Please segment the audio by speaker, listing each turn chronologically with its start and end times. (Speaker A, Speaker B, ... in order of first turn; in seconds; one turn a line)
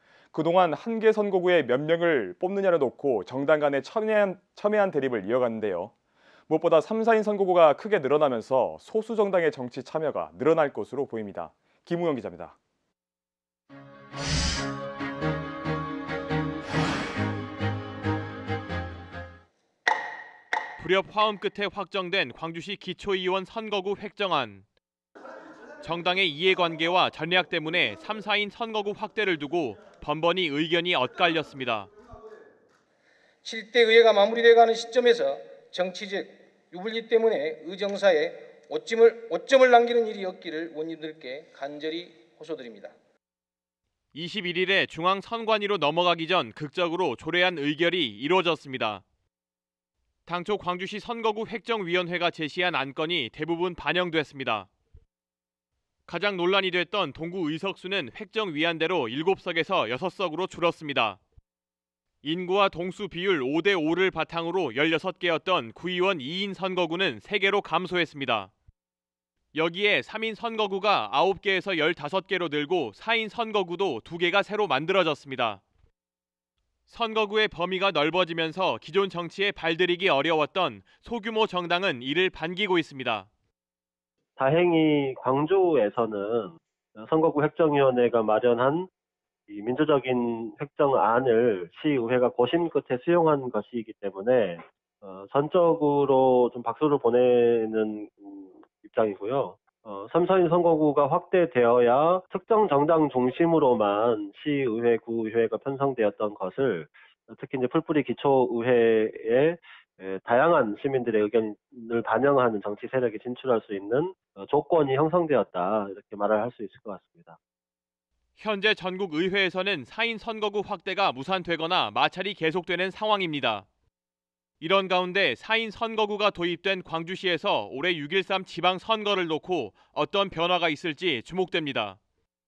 Speaker A: 0.3-5.9
Speaker A: 6.5-12.6
Speaker B: 20.8-24.6
Speaker B: 25.8-31.9
Speaker C: 33.4-42.9
Speaker B: 44.1-49.0
Speaker B: 50.2-54.7
Speaker B: 56.1-61.2
Speaker B: 62.2-68.5
Speaker B: 69.5-75.6
Speaker B: 76.9-83.3
Speaker D: 84.4-88.9
Speaker D: 89.5-117.4
Speaker B: 118.4-123.7
Speaker B: 124.6-132.0